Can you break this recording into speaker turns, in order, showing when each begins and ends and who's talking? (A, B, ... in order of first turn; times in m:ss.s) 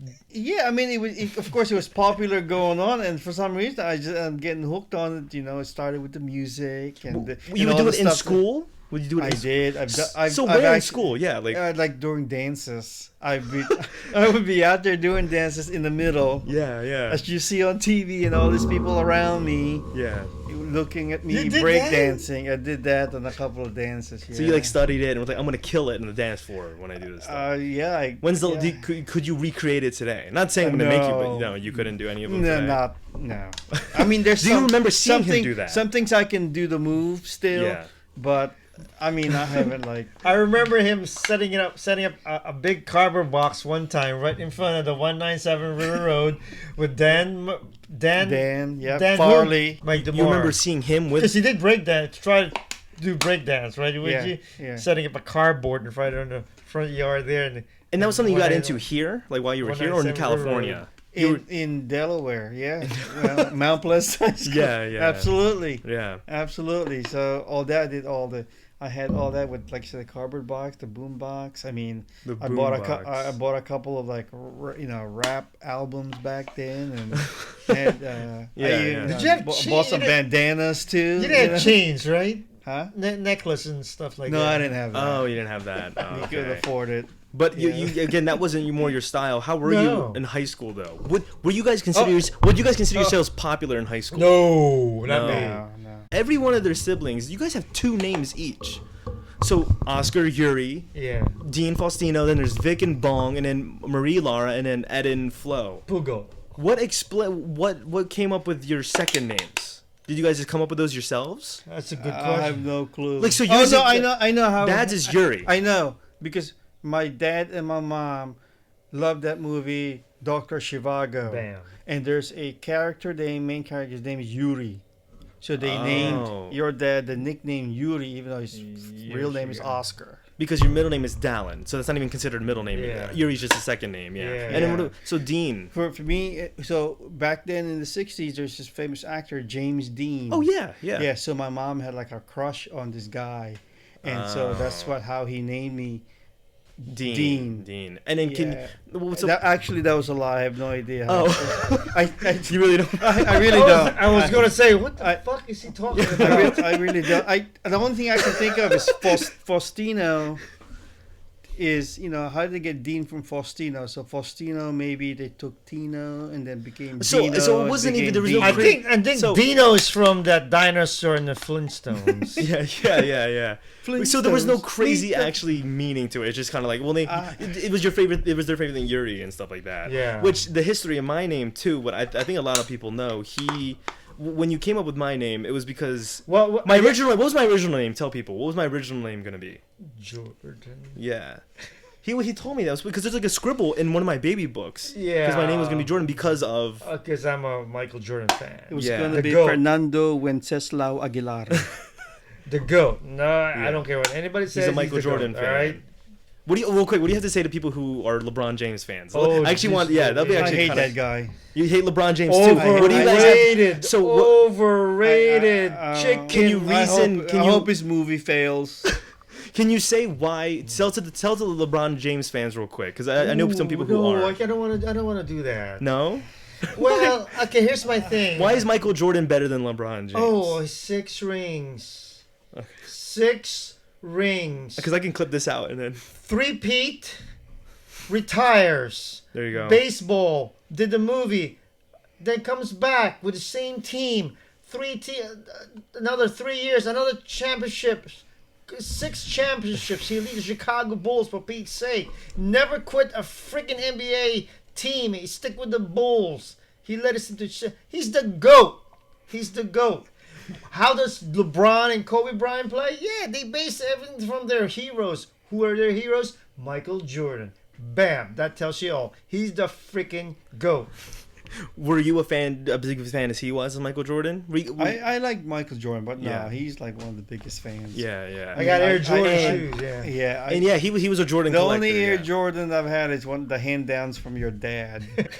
0:00.3-0:08.4 A
0:07.1-0:11.6 B
0:09.2-0:16.5 A
0:16.4-0:17.2 B
0:17.1-0:19.9 A
0:19.9-0:20.3 B
0:20.4-0:24.8 A
0:21.3-0:22.2 C
0:24.3-0:27.5 B
0:27.2-0:28.9 A
0:28.2-0:32.8 B
0:30.6-0:40.2 A
0:33.7-0:35.8 B
0:37.5-0:37.9 B
0:40.2-0:50.6 C
0:48.2-0:49.8 A
0:50.0-0:51.3 B
0:51.2-0:58.8 C
0:54.0-0:54.8 A
0:57.9-1:01.4 B
0:59.6-1:00.8 C
1:01.1-1:21.8 A
1:02.9-1:03.5 B
1:04.4-1:06.2 B
1:12.2-1:13.3 B
1:17.2-1:17.8 B
1:18.6-1:19.2 B
1:19.0-1:20.2 C
1:21.2-1:24.7 C
1:22.6-1:22.9 A
1:24.2-1:25.3 A
1:24.9-1:26.7 B
1:26.1-1:28.2 A
1:27.3-1:34.4 B
1:29.6-1:30.2 C
1:31.9-1:32.3 C
1:34.1-1:35.6 C
1:35.0-1:35.6 B
1:35.2-1:36.0 A
1:36.1-1:38.8 B
1:39.4-1:40.9 B
1:40.9-1:41.4 C
1:41.4-1:45.8 B
1:45.9-1:46.4 C
1:46.5-1:51.6 B
1:51.6-1:52.6 C
1:52.0-1:58.4 A
1:53.2-1:55.5 B
1:58.9-2:04.8 A
2:01.3-2:01.7 C
2:05.4-2:10.2 A
2:05.6-2:06.6 B
2:06.0-2:06.2 C
2:08.5-2:09.8 C
2:10.4-2:15.7 B
2:12.7-2:13.2 C
2:14.2-2:14.9 C
2:14.5-2:14.9 A
2:15.7-2:26.0 A
2:20.3-2:21.1 B
2:24.0-2:25.0 B
2:26.9-2:29.4 B
2:26.9-2:27.6 A
2:28.2-2:35.2 A
2:31.1-2:33.9 B
2:33.4-2:36.7 C
2:35.9-2:37.2 B
2:36.1-2:40.4 A
2:38.2-2:39.2 B
2:41.6-2:48.8 A
2:47.0-2:49.4 B
2:48.4-2:52.4 C
2:52.4-3:09.6 B
2:53.8-2:55.1 A
2:54.8-2:55.3 C
2:57.0-2:57.4 A
2:59.8-3:00.4 C
3:06.2-3:07.0 C
3:09.8-3:11.0 C
3:11.0-3:11.4 B
3:12.0-3:16.9 B
3:14.9-3:16.1 C
3:16.8-3:19.6 C
3:18.7-3:21.7 A
3:18.8-3:19.2 B
3:22.4-3:25.8 C
3:23.5-3:23.8 B
3:24.5-3:25.8 B
3:26.4-3:30.9 B
3:29.1-3:30.9 C
3:30.3-3:31.3 A
3:31.5-3:34.5 B
3:32.3-3:36.4 C
3:32.5-3:33.6 A
3:35.0-3:38.9 A
3:35.8-3:37.7 B
3:39.5-3:44.4 B
3:43.2-3:45.9 C
3:45.8-3:47.2 B
3:46.7-3:48.7 C
3:48.3-3:50.6 B
3:50.1-3:52.2 C
3:52.8-3:54.9 C
3:54.8-3:56.0 B
3:56.2-3:57.2 C
3:58.1-4:01.6 C
3:59.3-3:59.8 B
4:02.2-4:20.1 C
4:20.7-4:30.9 C
4:31.7-4:35.0 B
4:34.8-4:40.7 A
4:36.2-4:36.5 B
4:37.9-4:39.7 B
4:38.5-4:40.1 C
4:40.5-4:42.3 B
4:41.5-4:45.2 A